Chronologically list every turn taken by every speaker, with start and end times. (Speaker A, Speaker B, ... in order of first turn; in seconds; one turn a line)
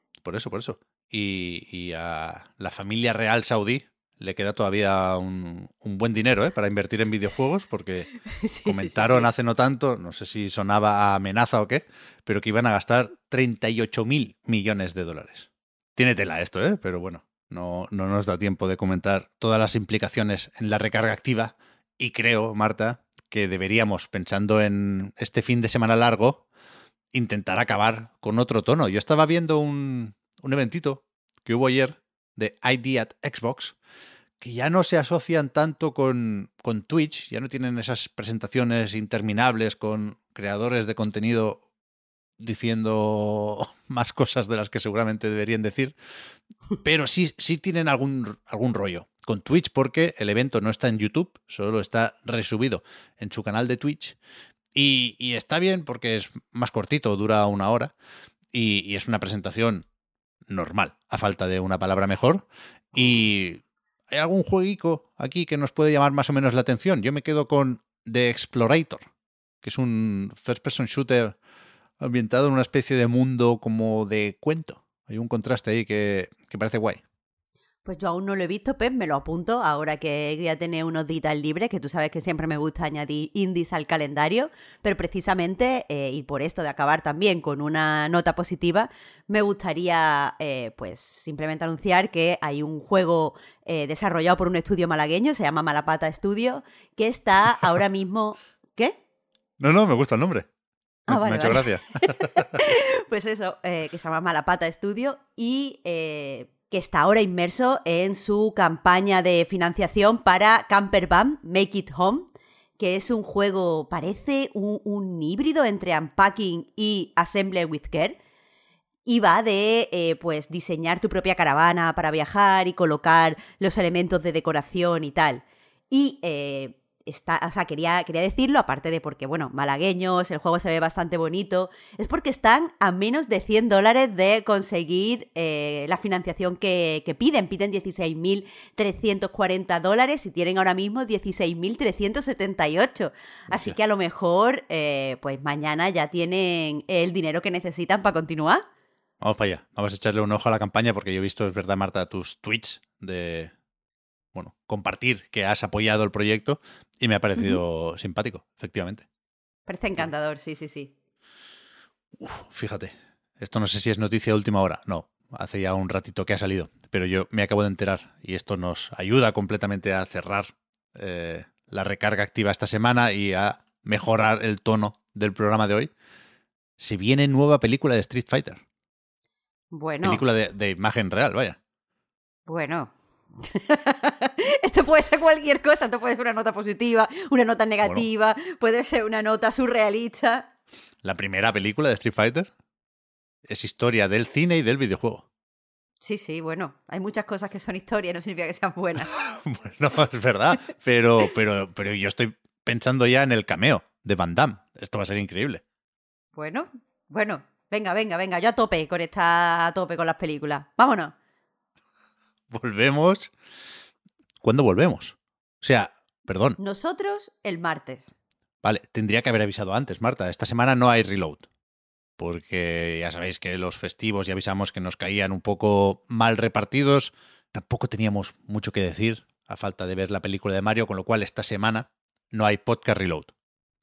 Speaker A: 0.2-26.4
Speaker B: 8.3-9.3
Speaker A: 27.1-33.8
Speaker A: 34.4-41.6
Speaker A: 42.4-46.0
Speaker A: 46.8-54.2
Speaker A: 54.8-57.9
Speaker A: 58.5-59.9
Speaker A: 60.5-69.0
Speaker A: 69.6-71.3
Speaker A: 72.0-77.0
Speaker B: 77.8-98.9
Speaker A: 99.6-100.5
Speaker A: 101.1-102.5
Speaker B: 101.1-118.2
Speaker B: 119.0-148.6
Speaker A: 149.2-153.5
Speaker A: 154.3-159.1
Speaker B: 159.7-160.9
Speaker A: 162.2-175.9
Speaker A: 176.8-178.6
Speaker B: 179.7-180.2
Speaker A: 180.0-181.6
Speaker B: 182.5-190.5
Speaker A: 191.0-192.5
Speaker A: 193.5-195.3
Speaker B: 196.0-199.1
Speaker A: 199.2-205.6
Speaker B: 206.4-211.1
Speaker A: 212.5-213.3
Speaker A: 214.4-216.6
Speaker B: 216.6-218.1
Speaker A: 218.6-221.4
Speaker A: 222.2-233.3